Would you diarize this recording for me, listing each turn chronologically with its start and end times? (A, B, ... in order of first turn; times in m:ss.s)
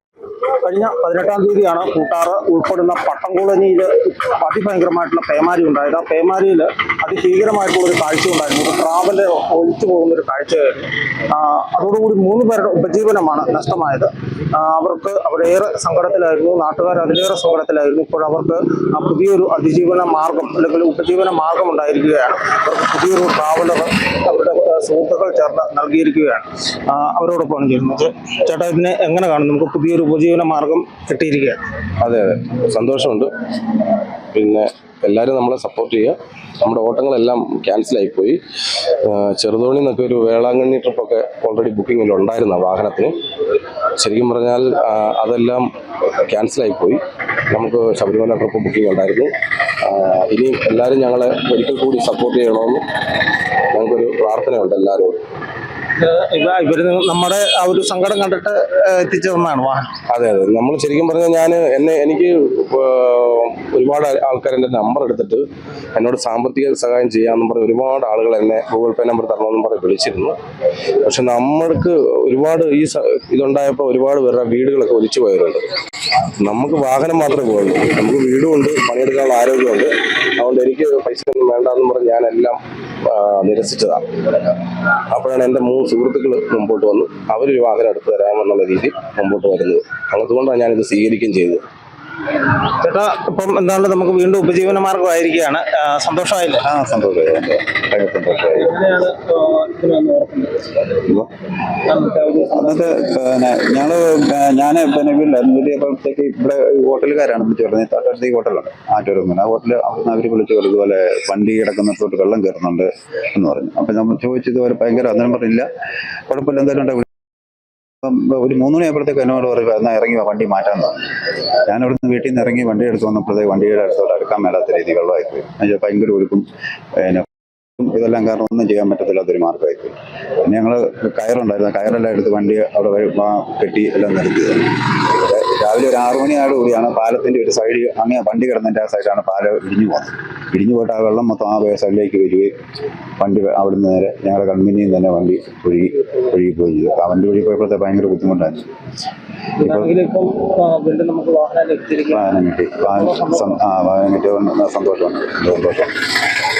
0:00.5-0:31.6 A
0:32.0-0:33.3 B
0:34.3-0:38.4 B
0:39.0-0:43.1 B
0:44.0-0:49.3 B
0:49.8-0:52.8 B
0:53.7-0:55.2 B
0:56.0-0:59.9 A
1:00.1-1:10.3 B
1:11.0-1:15.6 B
1:16.4-1:24.6 B
1:25.1-1:31.6 B
1:32.3-1:36.6 A
1:36.6-1:38.7 C
1:38.6-1:40.8 A
1:40.9-1:41.3 C
1:41.8-1:42.8 A
1:42.6-1:55.7 C
1:56.3-1:57.1 C
1:58.0-2:01.1 C
2:01.7-2:07.2 C
2:07.8-2:22.5 C
2:23.2-2:28.7 C
2:29.6-2:32.2 A
2:29.6-2:29.9 C
2:32.1-2:35.9 C
2:32.9-2:33.6 A